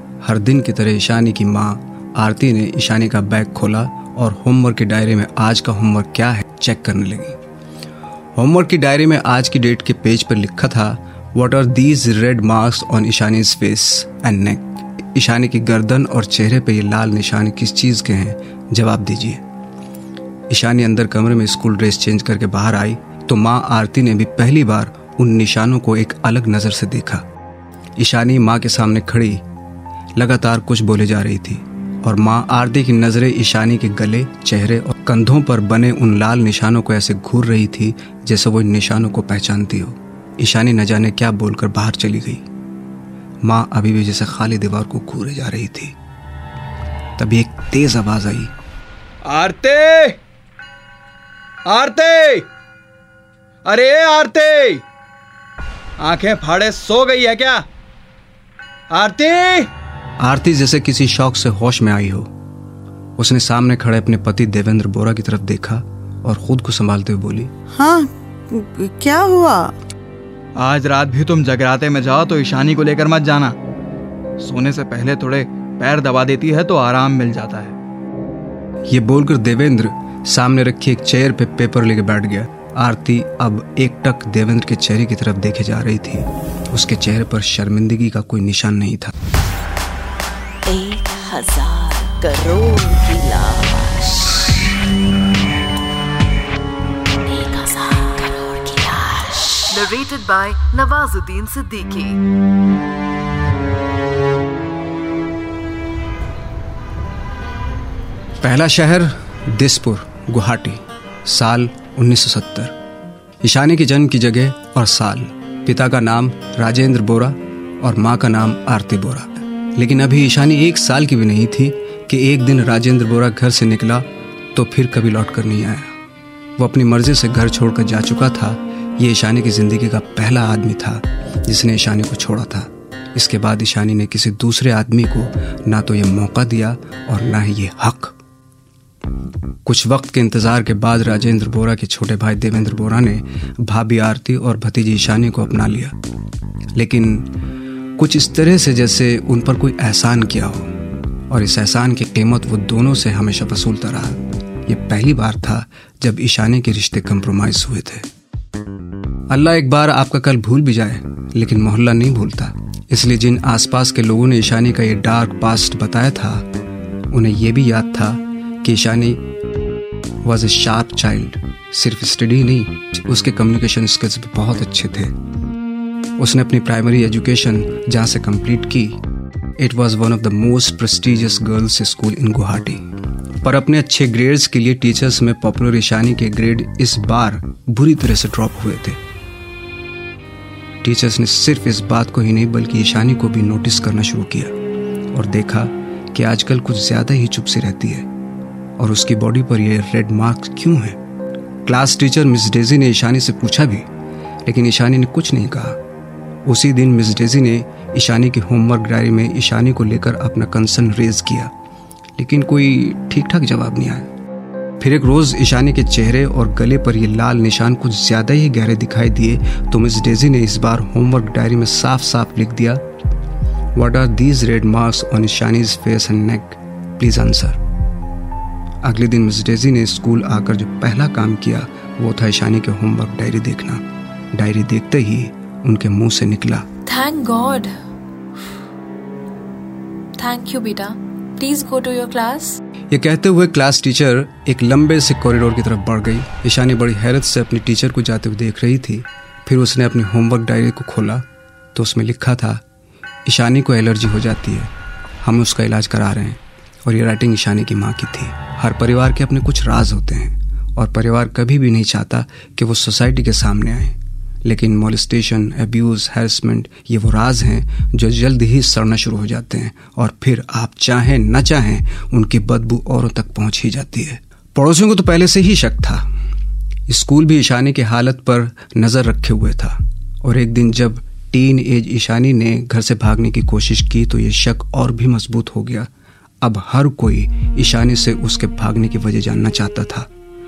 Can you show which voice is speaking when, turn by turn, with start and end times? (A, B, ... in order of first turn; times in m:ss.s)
0:00.2-0:07.4 A
0:08.4-0:19.4 A
0:20.5-0:27.2 A
0:28.0-0:29.4 A
0:30.2-0:42.4 A
0:43.4-0:46.0 A
0:47.2-0:48.5 A
0:49.2-0:50.2 B
0:51.7-0:52.5 B
0:53.6-0:54.8 B
0:56.0-0:57.7 B
0:58.9-0:59.7 B
1:00.2-1:02.3 A
1:03.2-1:07.5 A
1:07.7-1:09.8 C
1:10.6-1:13.6 B
1:14.4-1:17.8 B
1:18.9-1:29.2 A
1:30.7-1:34.4 D
1:37.2-1:39.7 D
1:39.7-1:42.2 E
1:48.4-1:52.8 A
1:53.4-2:05.9 A
2:06.6-2:18.2 A
2:19.6-2:26.0 A
2:26.8-2:27.3 A
2:28.0-2:30.7 A
2:31.3-2:38.1 A
2:39.3-2:46.5 A
2:47.1-2:49.2 A
2:50.2-2:55.1 A
2:56.2-2:59.0 A
2:59.6-3:02.8 A
3:03.4-3:09.0 A
3:10.8-3:14.5 A
3:15.1-3:18.1 A
3:18.8-3:21.0 A
3:21.6-3:23.9 A
3:24.5-3:25.8 A
3:26.5-3:31.5 A
3:32.2-3:34.1 A
3:34.8-3:42.8 A
3:43.8-3:47.6 A
3:48.8-3:56.7 A
3:56.9-3:57.7 F
4:00.2-4:02.6 F
4:02.9-4:11.2 A
4:11.8-4:12.6 A
4:13.3-4:14.7 A
4:15.2-4:36.0 A
4:36.9-4:45.9 A
4:46.4-4:50.1 A